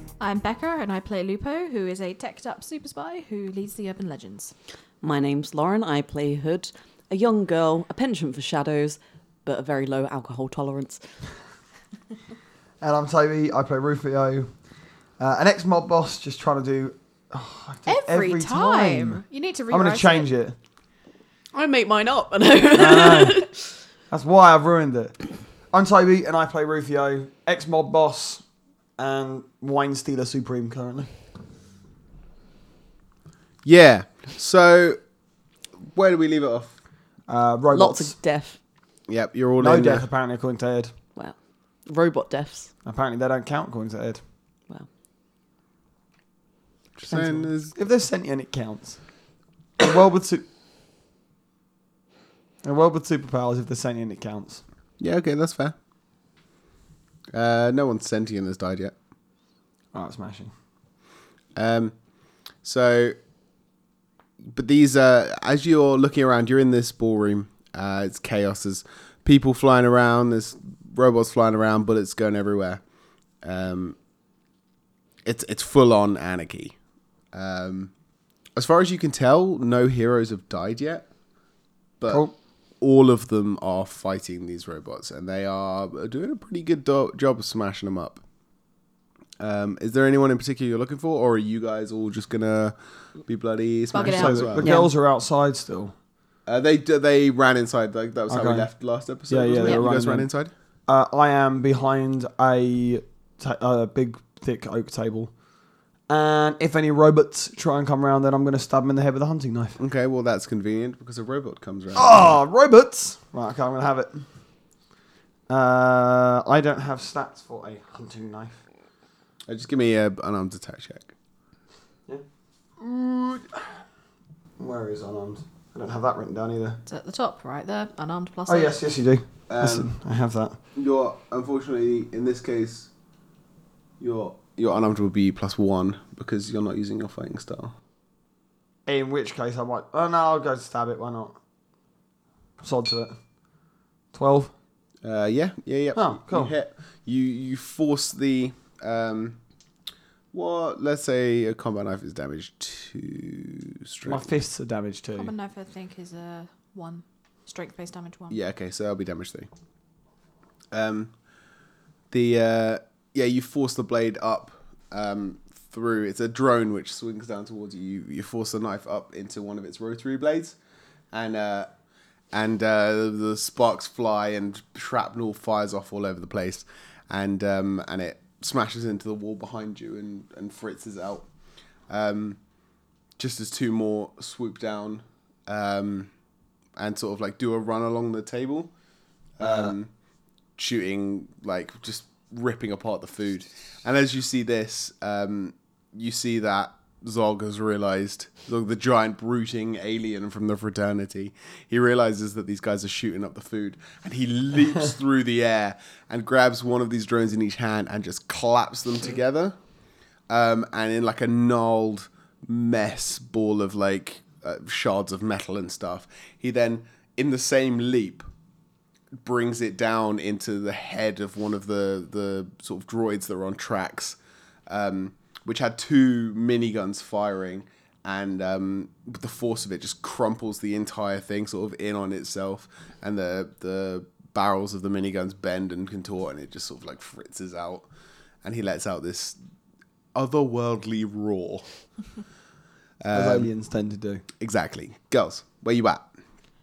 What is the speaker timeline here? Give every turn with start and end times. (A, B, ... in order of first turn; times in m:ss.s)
0:00.2-0:04.5 A
0:05.0-0:11.2 B
0:12.8-0:14.6 C
0:15.2-0:20.6 C
0:17.8-0:20.3 A
0:21.5-0:23.8 B
0:22.7-0:23.5 C
0:24.1-0:28.4 C
0:29.0-0:31.1 C
0:33.6-0:35.0 D
0:35.8-0:36.8 D
0:37.3-0:38.2 C
0:37.7-0:38.6 B
0:39.1-0:40.1 D
0:39.6-0:41.0 C
0:41.2-0:42.7 B
0:42.8-0:44.2 C
0:47.0-0:47.7 D
0:47.1-0:47.5 B
0:47.7-0:49.0 C
0:49.8-0:50.5 C
0:52.6-0:54.6 C
0:55.0-0:55.8 D
0:57.3-0:58.9 D
0:59.9-1:00.5 C
1:01.5-1:02.0 D
1:02.6-1:03.2 D
1:04.4-1:12.8 D
1:13.4-1:14.0 D
1:15.2-1:16.8 D
1:17.3-1:17.9 D
1:18.6-1:21.1 D
1:22.0-1:22.3 D
1:22.1-1:22.3 C
1:22.8-1:28.2 D
1:29.4-1:34.7 D
1:33.9-1:34.8 A
1:33.9-1:35.9 C
1:34.6-1:34.9 B
1:36.4-1:40.5 D
1:38.3-1:38.7 C
1:39.3-1:40.3 C
1:40.9-1:45.3 C
1:46.1-1:49.8 C
1:49.8-1:52.4 D
1:51.9-1:54.3 C
1:55.5-1:58.6 C
1:59.4-2:01.1 D
2:02.8-2:03.6 C
2:04.6-2:06.8 C
2:06.8-2:08.8 A
2:08.5-2:10.6 C
2:09.5-2:09.9 D
2:10.7-2:12.9 D
2:14.0-2:17.7 D
2:18.8-2:21.4 C
2:22.6-2:23.2 C
2:24.1-2:24.5 C
2:25.0-2:29.4 D
2:25.9-2:26.5 C
2:30.3-2:34.4 D
2:34.0-2:35.3 C
2:35.1-2:38.4 A
2:38.3-2:39.5 D
2:40.7-2:41.1 D
2:42.1-2:50.6 D
2:51.1-2:51.7 D
2:52.3-3:01.3 D
3:01.9-3:02.4 D
3:03.2-3:06.1 D
3:06.8-3:08.7 D
3:09.4-3:09.9 D
3:09.4-3:09.7 C
3:10.6-3:29.6 D
3:30.3-3:38.2 D
3:39.2-3:57.9 D
3:58.4-3:59.4 D
4:00.1-4:01.7 D
4:03.0-4:03.5 D
4:03.1-4:04.2 C
4:04.4-4:06.1 D